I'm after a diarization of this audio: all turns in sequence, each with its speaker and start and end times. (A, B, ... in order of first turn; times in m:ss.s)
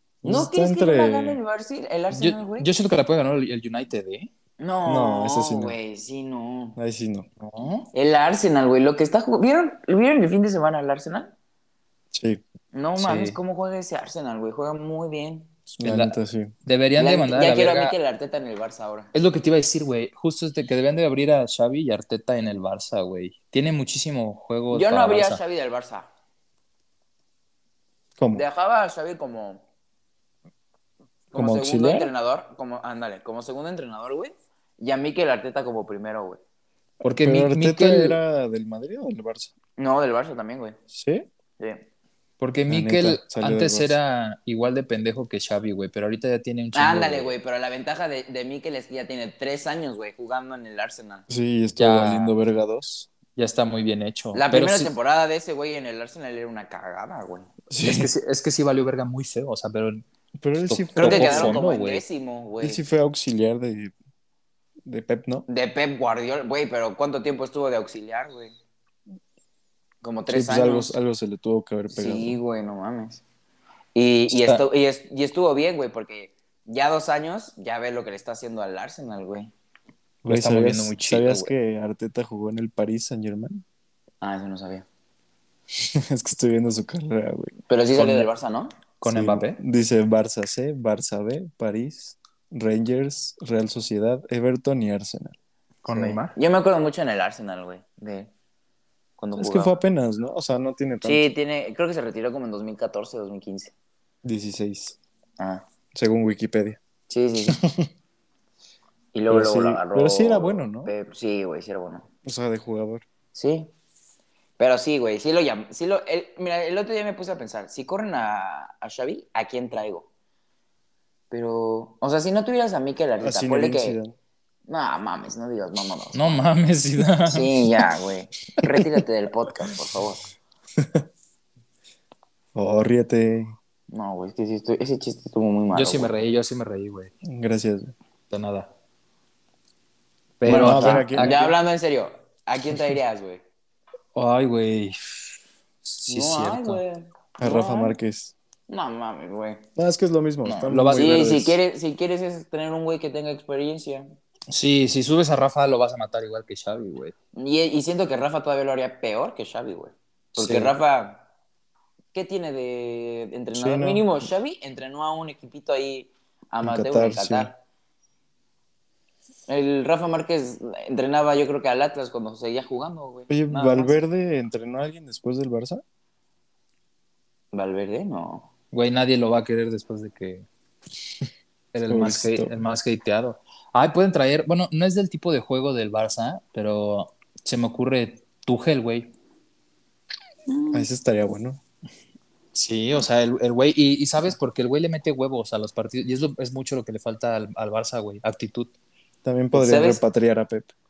0:00.2-0:01.4 A
0:00.2-0:02.7 B
0:02.1-0:04.3 C
0:04.6-0:06.8 B
0:04.8-0:05.8 A
0:06.8-0:07.3 A
0:07.4-0:07.9 C
0:07.9-0:11.3 B
0:12.1-0:12.4 A
0:12.7-0:15.5 B
0:13.0-0:13.4 C
0:15.7-0:16.5 A
0:15.8-0:18.0 C
0:17.0-0:19.1 B
0:19.1-0:25.4 C
0:24.7-0:26.1 B
0:28.2-0:28.4 A
0:28.3-0:29.6 B
0:31.3-0:36.4 B
0:31.3-0:32.1 A
0:37.0-0:38.2 C
0:37.2-0:39.5 A
0:39.8-0:40.8 B
0:40.9-0:41.3 A
0:41.6-0:41.8 B
0:42.4-0:47.3 C
0:42.7-0:44.0 A
0:46.7-0:51.2 B
0:51.3-0:53.1 A
0:51.8-0:52.3 C
0:53.4-0:54.9 C
0:54.3-0:57.5 B
0:57.7-0:58.1 A
0:57.8-1:00.0 C
1:00.4-1:01.6 A
1:00.6-1:02.0 C
1:01.0-1:02.8 B
1:02.6-1:03.9 A
1:04.8-1:05.5 A
1:05.5-1:08.5 B
1:10.0-1:10.9 B
1:10.3-1:12.4 A
1:11.9-1:13.2 B
1:13.9-1:19.5 B
1:14.3-1:14.6 C
1:20.2-1:23.6 A
1:20.2-1:21.5 C
1:24.2-1:24.8 B
1:25.8-1:27.5 A
1:27.7-1:28.8 B
1:28.0-1:28.3 C
1:29.0-1:29.6 C
1:29.0-1:35.4 A
1:35.8-1:36.4 C
1:35.8-1:38.3 B
1:39.2-1:39.7 B
1:39.4-1:41.3 A
1:41.0-1:43.7 B
1:44.2-1:45.0 A
1:45.4-1:45.6 B
1:45.9-1:46.8 A
1:47.1-1:47.6 B
1:47.4-1:47.9 A
1:49.1-1:52.1 B
1:49.3-1:50.9 A
1:52.2-1:53.0 A
1:53.3-1:53.7 B
1:54.6-2:00.1 B
2:01.3-2:04.0 B
2:03.2-2:04.1 A
2:04.7-2:06.4 B
2:06.1-2:07.5 C
2:07.3-2:10.2 B
2:10.8-2:11.0 A
2:12.5-2:13.5 A
2:13.9-2:16.2 B
2:15.7-2:17.1 C
2:17.2-2:17.9 A
2:18.3-2:18.7 C
2:20.4-2:21.4 C
2:20.4-2:21.5 A
2:20.4-2:23.4 B
2:24.1-2:25.3 C
2:25.8-2:26.8 C
2:26.1-2:28.0 B
2:27.4-2:28.3 A
2:28.7-2:29.6 B
2:29.8-2:31.6 A
2:30.4-2:31.3 C
2:31.0-2:34.1 B
2:34.5-2:37.1 C
2:37.3-2:41.2 B
2:40.4-2:40.7 C
2:42.1-2:47.6 B
2:43.5-2:44.1 A
2:46.6-2:47.5 A
2:49.5-2:54.0 B
2:53.3-2:55.8 A
2:57.5-2:58.5 B
2:58.7-3:00.4 C
3:01.7-3:09.1 C
3:01.9-3:02.5 A
3:10.5-3:10.8 B
3:10.7-3:11.6 A
3:12.5-3:18.7 C
3:19.2-3:20.7 A
3:19.5-3:20.0 B